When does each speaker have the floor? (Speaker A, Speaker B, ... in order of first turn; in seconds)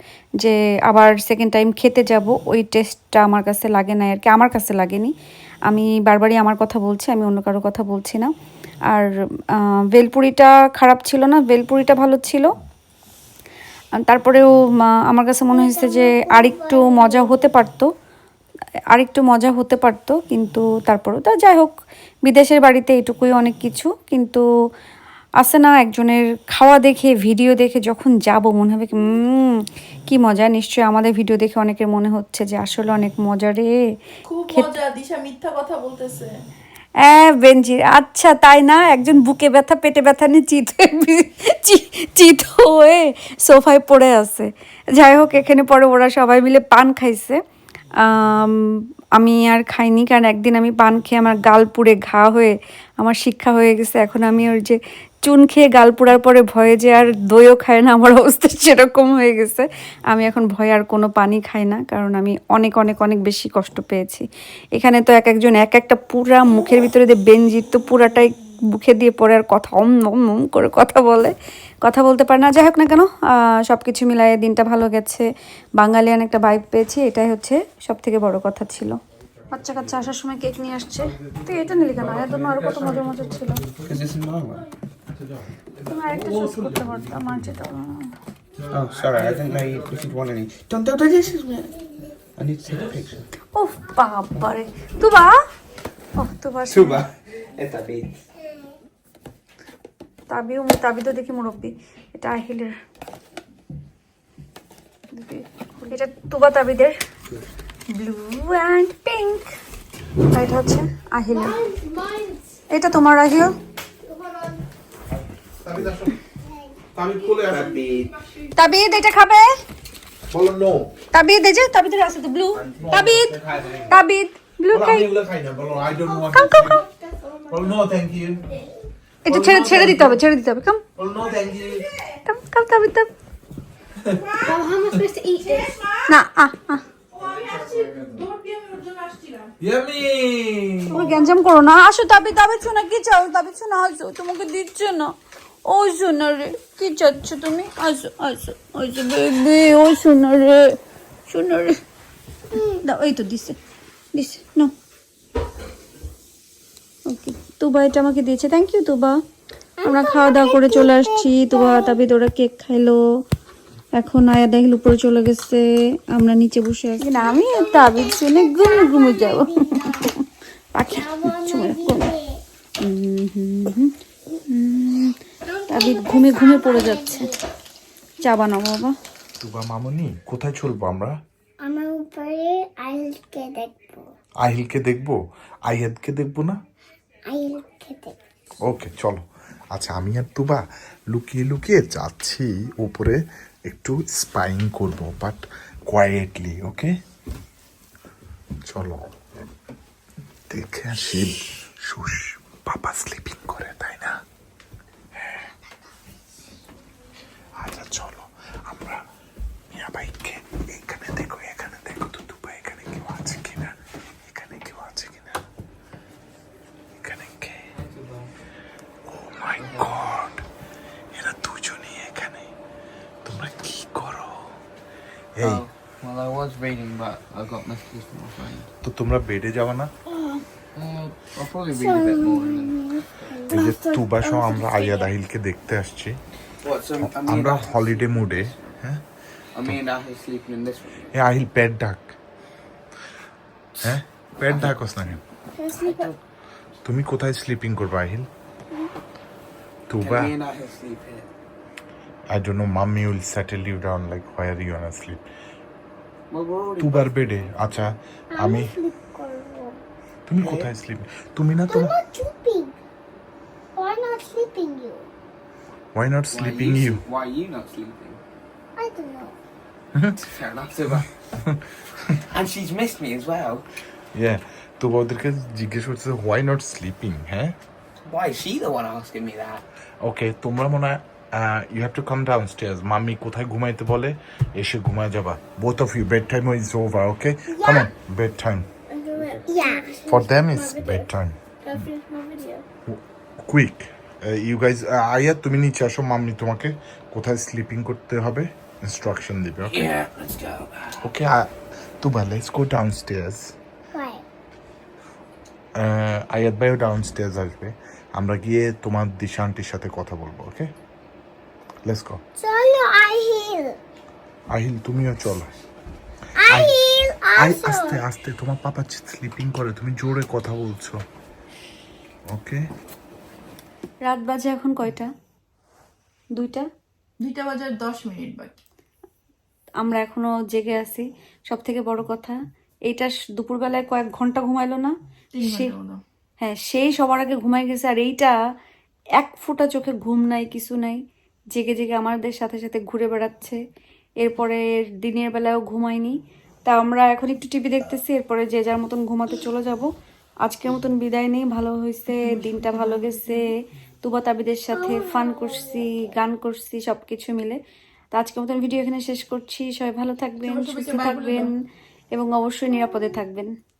Speaker A: 0.4-5.1, 5.7-8.3, 8.9-12.5, 14.0-17.9, 18.9-21.7, 22.2-24.4, 25.4-33.7, 37.0-47.4, 48.0-64.2, 64.8-71.3, 71.8-75.3, 75.8-78.9, 79.5-83.6, 85.8-88.1, 93.5-95.3, 96.2-97.0, 100.3-102.7, 105.1-107.0, 107.9-109.5, 110.3-111.6, 112.7-113.5, 118.5-119.5, 121.1-123.4, 123.9-125.1, 126.2-126.8, 129.2-130.8, 132.2-133.1, 136.1-136.8, 140.9-145.1, 145.7-150.8, 151.3-151.8, 152.8-153.6, 154.1-154.7, 157.1-159.2, 159.8-163.0, 164.0-170.2, 170.7-172.1, 172.8-173.9, 174.5-175.2, 175.7-177.3, 178.2-178.9, 324.0-325.1, 326.3-326.6, 329.8-332.4, 332.9-334.9, 335.5-335.8, 336.4-338.4, 339.2-341.0, 341.5-343.6, 344.2-349.9, 350.4-353.5, 354.0-357.6, 358.1-361.5, 362.1-363.5
Speaker B: 15.5-17.4, 111.7-112.4, 114.0-114.6, 126.0-127.7, 134.4-135.7, 152.5-152.8, 159.8-161.9, 167.2-170.1, 170.9-172.4, 175.4-177.4, 181.6-184.1, 187.3-188.2, 231.7-235.1, 245.6-246.1, 258.3-259.8, 261.7-262.7, 263.8-265.1, 268.8-269.3, 287.6-287.9, 288.9-291.1, 291.6-292.6, 303.9-304.2, 312.4-313.8, 316.4-318.0, 354.7-355.8
Speaker C: 34.2-36.3, 134.2-136.1, 137.1-139.5, 327.2-328.6, 335.3-336.0, 360.4-361.5
Speaker D: 81.3-83.9, 85.1-87.6, 88.6-90.1, 115.6-116.2, 116.9-117.8, 120.3-120.9, 122.8-123.9, 124.7-126.8, 127.5-128.4, 129.3-130.2, 130.9-131.8, 137.2-138.2, 139.6-141.1, 179.4-181.2, 184.4-186.6, 188.7-196.9, 198.7-199.1, 200.5-204.2, 205.2-205.5, 207.6-209.1, 209.7-215.4, 217.0-217.7, 219.1-220.4, 221.1-222.5, 223.2-224.5, 225.3-225.6, 228.8-229.9, 233.5-236.2, 237.0-239.0, 241.1-242.2, 243.8-245.2, 246.8-248.3, 249.9-250.4, 252.3-255.2, 256.8-258.8, 260.3-262.0, 265.9-267.0, 274.1-277.6, 280.0-288.7, 290.0-291.9, 292.9-300.0, 301.0-301.5, 302.0-303.5, 305.8-310.7, 311.9-312.2, 314.5-315.5, 316.5-321.0, 322.3-322.6
Speaker E: 83.8-84.7, 88.7-91.7, 92.3-93.3, 96.7-98.2, 117.4-118.1, 122.5-123.2, 217.7-218.3, 219.6-220.0, 225.4-228.7, 230.7-233.5, 236.6-238.8, 239.5-241.2, 243.8-244.8, 245.7-246.2, 250.0-251.3, 256.3-257.8, 260.4-260.7, 266.3-268.2, 270.2-271.1, 272.1-273.6, 278.0-279.6, 289.2-289.8, 299.6-301.1